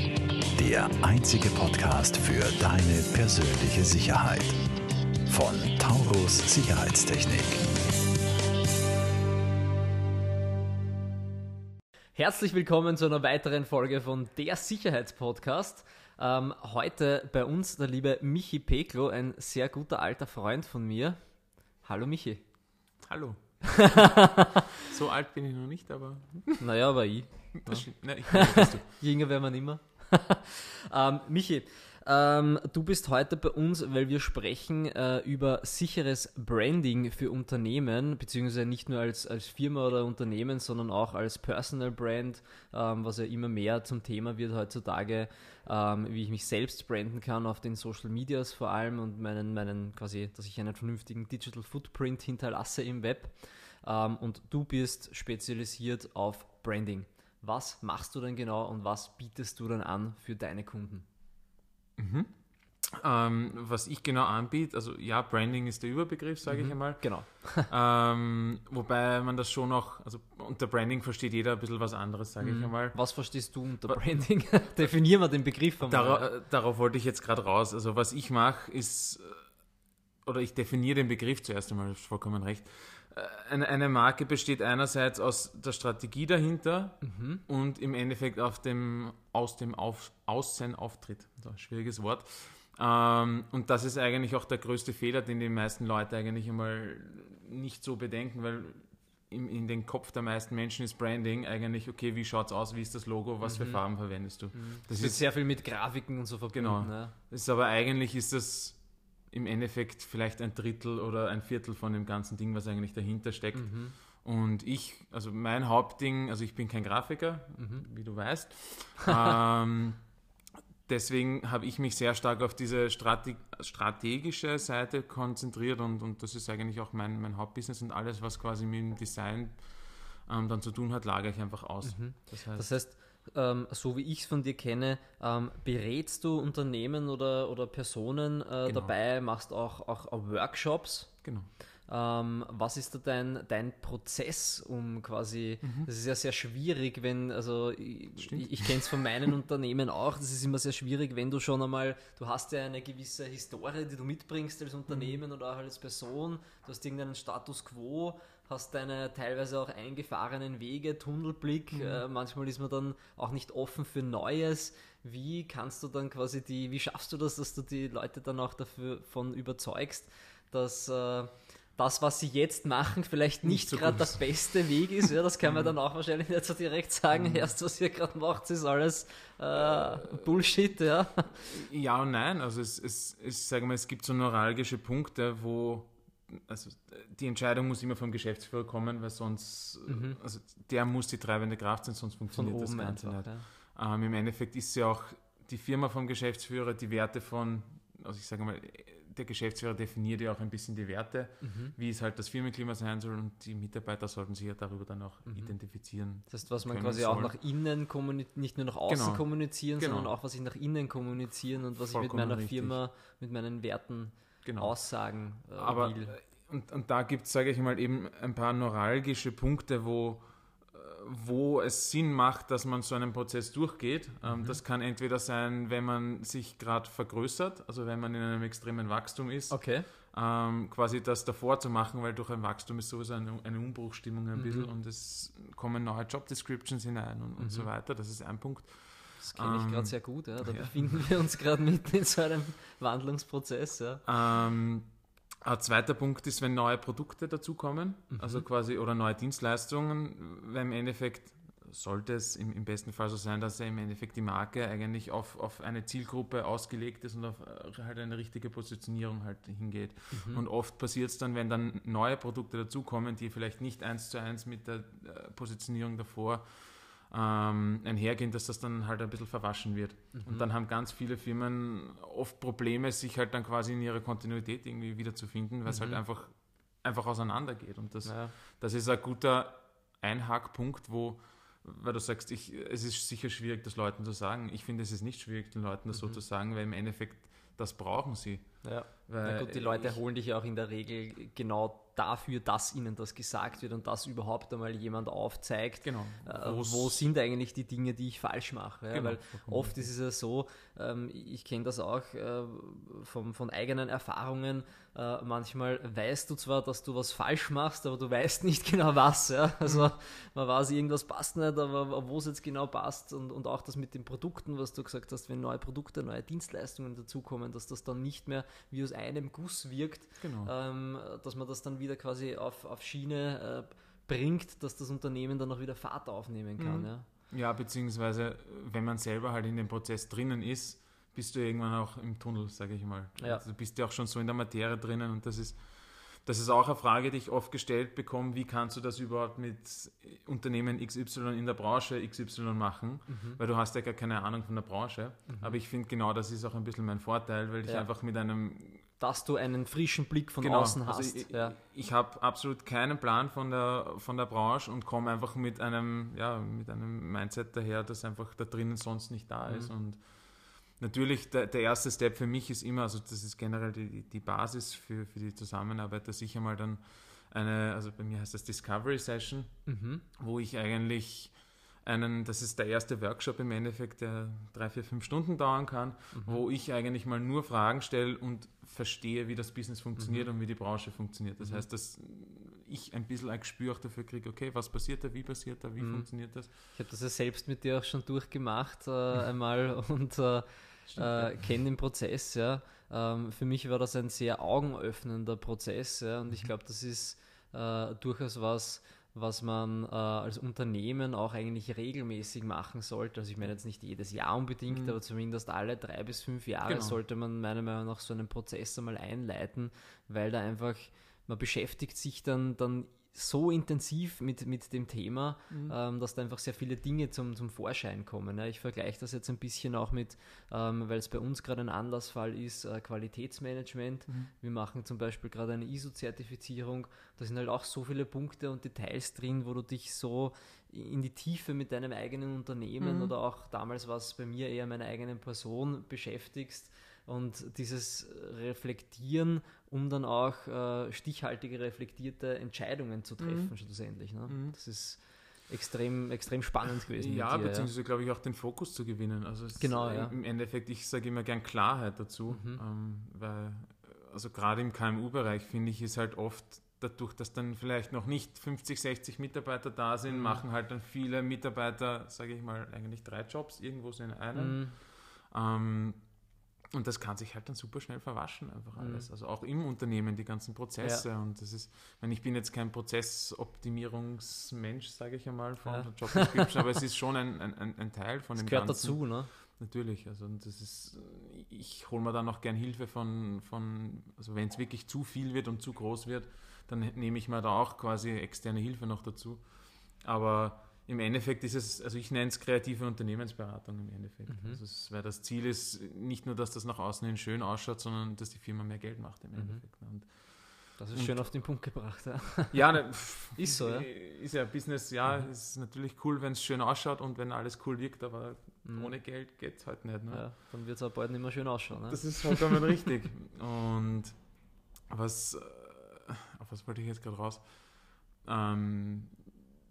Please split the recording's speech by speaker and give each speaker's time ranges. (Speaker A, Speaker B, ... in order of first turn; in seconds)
Speaker A: 0.6-4.6, 5.3-7.6
Speaker B: 12.1-21.2, 21.8-22.4, 23.7-24.6, 26.6-61.0, 66.5-67.7, 72.4-76.3, 87.0-87.4, 103.4-107.1, 113.5-113.9, 117.5-117.8, 131.8-141.2, 141.9-181.4, 189.9-190.2, 192.3-193.4, 201.4-201.7, 205.2-205.6, 206.2-216.2, 224.2-224.6, 229.5-229.9, 234.3-234.7, 237.4-237.7, 239.2-244.1, 248.1-248.5, 260.1-260.4, 270.2-270.5, 275.6-276.0, 278.0-278.3, 285.9-286.2, 288.6-327.1, 333.2-333.4, 343.1-343.4, 345.3-345.6, 347.6-347.9, 349.0-351.6, 359.4-359.7, 369.6-370.0, 376.1-376.4, 380.0-380.3, 381.4-381.7, 385.8-447.7, 449.6-450.2, 452.3-452.6, 460.1-460.4, 464.3-464.8, 468.7-469.1, 470.8-471.1, 475.6-476.5, 478.4-479.3, 494.3-494.6, 499.3-499.7, 500.8-503.9, 508.6-509.0, 510.1-512.5
Speaker C: 23.0-26.6, 27.5-28.9, 62.0-62.3, 62.9-73.1, 73.9-74.9, 75.8-79.5, 80.2-105.2, 106.5-120.0, 120.8-132.8, 138.6-138.9, 141.2-141.5, 145.6-145.9, 148.2-149.0, 154.9-155.2, 161.7-162.0, 173.4-175.7, 177.1-177.5, 179.6-180.3, 181.3-207.4, 208.9-210.1, 211.8-212.8, 214.4-241.2, 244.0-244.9, 245.4-290.0, 295.8-297.0, 298.9-299.8, 309.6-309.9, 320.2-320.5, 326.6-348.8, 350.4-369.5, 370.2-386.5, 390.9-391.4, 404.7-405.0, 406.6-407.0, 415.5-415.8, 432.8-433.1, 443.2-443.5, 444.3-444.6, 446.9-501.6, 502.5-510.3, 511.7-519.2